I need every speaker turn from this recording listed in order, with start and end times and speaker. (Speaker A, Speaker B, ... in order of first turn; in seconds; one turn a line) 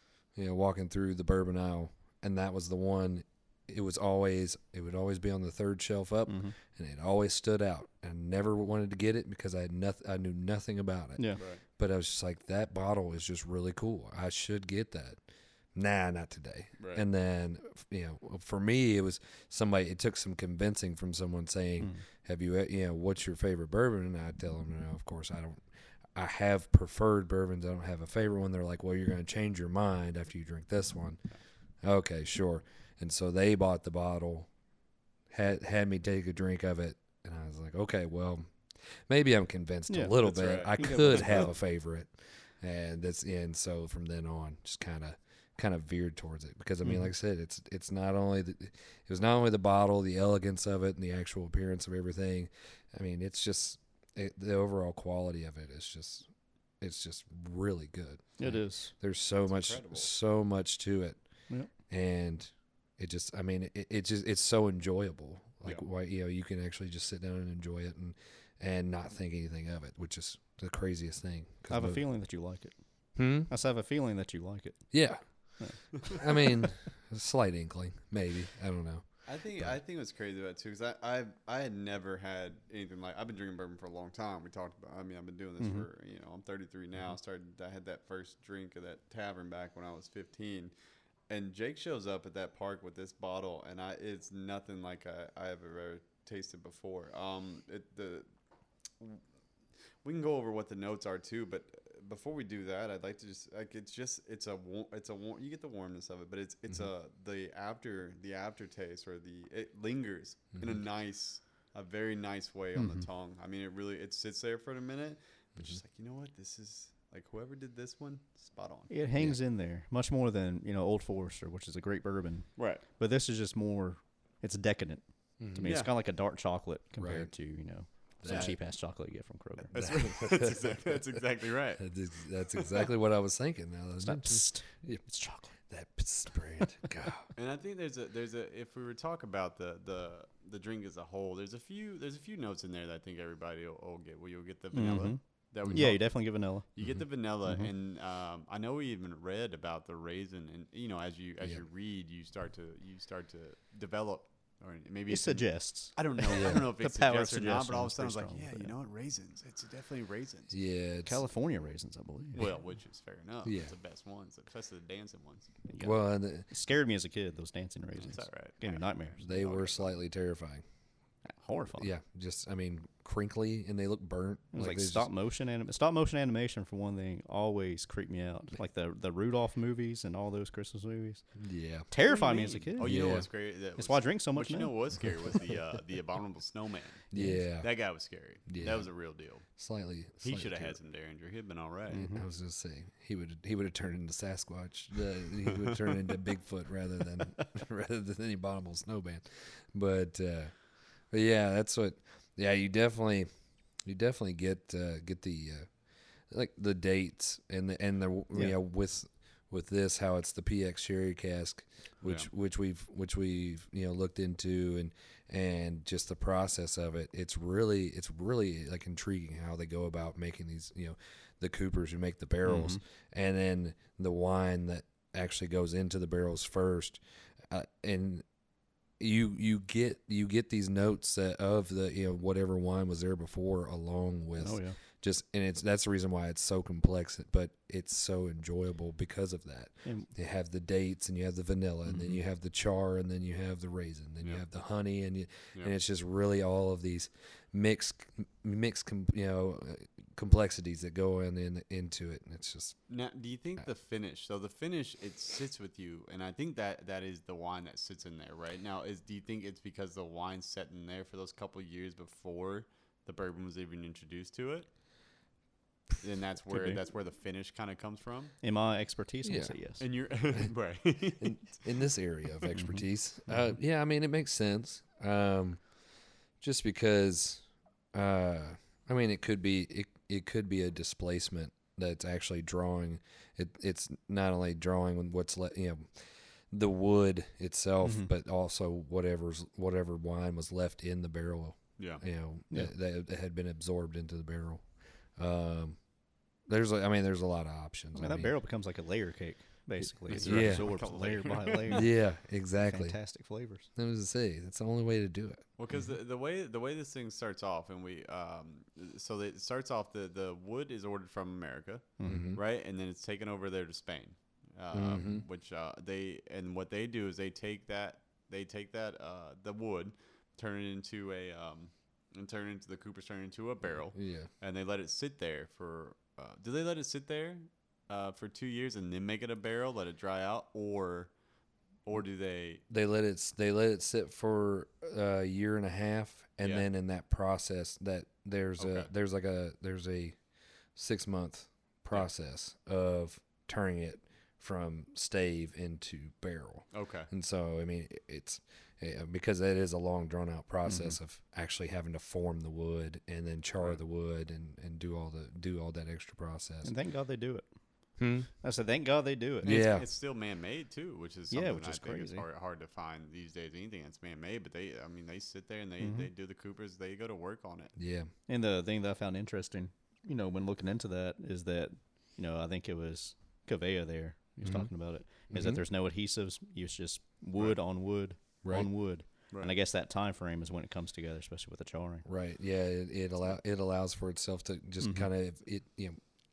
Speaker A: 0.3-15.2
Speaker B: 6.3-6.6
Speaker B: 11.2-11.4
Speaker A: 15.8-25.6
Speaker C: 16.8-17.1
Speaker A: 26.1-31.2
Speaker A: 31.8-34.5
Speaker A: 35.3-56.3
Speaker B: 39.9-40.2
Speaker C: 40.2-41.5
Speaker B: 40.7-41.5
Speaker A: 56.8-61.2
Speaker B: 58.4-58.9
Speaker C: 59.5-60.1
Speaker A: 61.9-72.0
Speaker B: 71.7-72.8
Speaker A: 73.2-73.5
Speaker B: 73.5-74.8
Speaker A: 74.9-75.2
Speaker B: 75.6-76.5
Speaker A: 76.0-79.1
Speaker C: 79.3-90.7
Speaker B: 85.6-85.9
Speaker C: 91.3-98.3
Speaker C: 100.0-118.9
Speaker B: 118.9-129.8
Speaker C: 122.6-122.8
Speaker A: 125.4-125.8
Speaker C: 125.7-125.9
Speaker A: 127.0-127.3
Speaker A: 128.2-128.6
Speaker C: 128.2-128.6
Speaker C: 129.7-131.9
Speaker A: 129.8-131.2
Speaker A: 131.8-135.0
Speaker C: 132.5-132.8
Speaker B: 134.0-135.6
Speaker A: 135.6-137.3
Speaker C: 137.3-160.5
Speaker B: 144.7-146.7
Speaker B: 155.1-158.7
Speaker A: 156.4-156.6
Speaker A: 160.5-161.2
Speaker B: 161.1-162.5
Speaker C: 162.3-165.6
Speaker A: 163.4-163.7
Speaker B: 165.7-169.2
Speaker A: 165.8-166.5
Speaker C: 168.0-170.0
Speaker A: 169.2-170.6
Speaker B: 171.3-171.9
Speaker A: 171.8-175.1
Speaker B: 174.5-181.2
Speaker A: 181.4-181.9
Speaker B: 181.9-183.0
Speaker C: 182.0-187.1
Speaker A: 182.8-183.3
Speaker B: 183.8-184.8
Speaker A: 187.1-187.7
Speaker B: 187.1-187.4
Speaker C: 187.6-189.4
Speaker A: 188.5-188.9
Speaker A: 189.6-190.8
Speaker C: 190.2-192.2
Speaker B: 191.9-192.2
Speaker A: 192.1-200.6
Speaker C: 195.5-195.8
Speaker A: 201.1-203.3
Speaker A: 203.8-205.7
Speaker A: 206.3-228.2
Speaker C: 212.0-212.3
Speaker B: 222.4-222.8
Speaker A: 229.0-252.8
Speaker B: 234.4-234.8
Speaker B: 239.8-240.1
Speaker B: 241.9-242.2
Speaker C: 252.9-264.7
Speaker C: 266.0-268.3
Speaker A: 266.5-266.8
Speaker B: 268.4-269.8
Speaker A: 269.2-269.5
Speaker C: 269.8-271.6
Speaker A: 271.2-275.6
Speaker B: 272.5-273.4
Speaker A: 276.4-294.6
Speaker B: 287.8-288.1
Speaker A: 295.2-295.8
Speaker A: 296.5-298.3
Speaker B: 297.9-301.9
Speaker C: 300.1-301.9
Speaker A: 300.2-300.7
Speaker A: 301.7-303.0
Speaker B: 302.6-303.7
Speaker A: 303.8-305.4
Speaker C: 305.6-331.1
Speaker B: 312.0-312.4
Speaker A: 312.1-312.4
Speaker A: 314.7-315.2
Speaker A: 323.9-324.3
Speaker C: 331.9-332.6
Speaker A: 332.7-340.2
Speaker C: 338.6-338.9
Speaker A: 340.8-356.7
Speaker C: 346.7-347.1
Speaker B: 350.7-351.0
Speaker B: 356.6-357.5
Speaker A: 358.0-358.3
Speaker B: 358.4-359.6
Speaker C: 359.4-367.8
Speaker A: 359.4-359.9
Speaker B: 361.3-362.3
Speaker B: 365.8-366.1
Speaker A: 367.8-368.1
Speaker B: 368.3-382.1
Speaker A: 374.4-374.7
Speaker A: 375.3-375.6
Speaker A: 378.4-378.7
Speaker A: 382.1-386.0
Speaker B: 384.8-385.1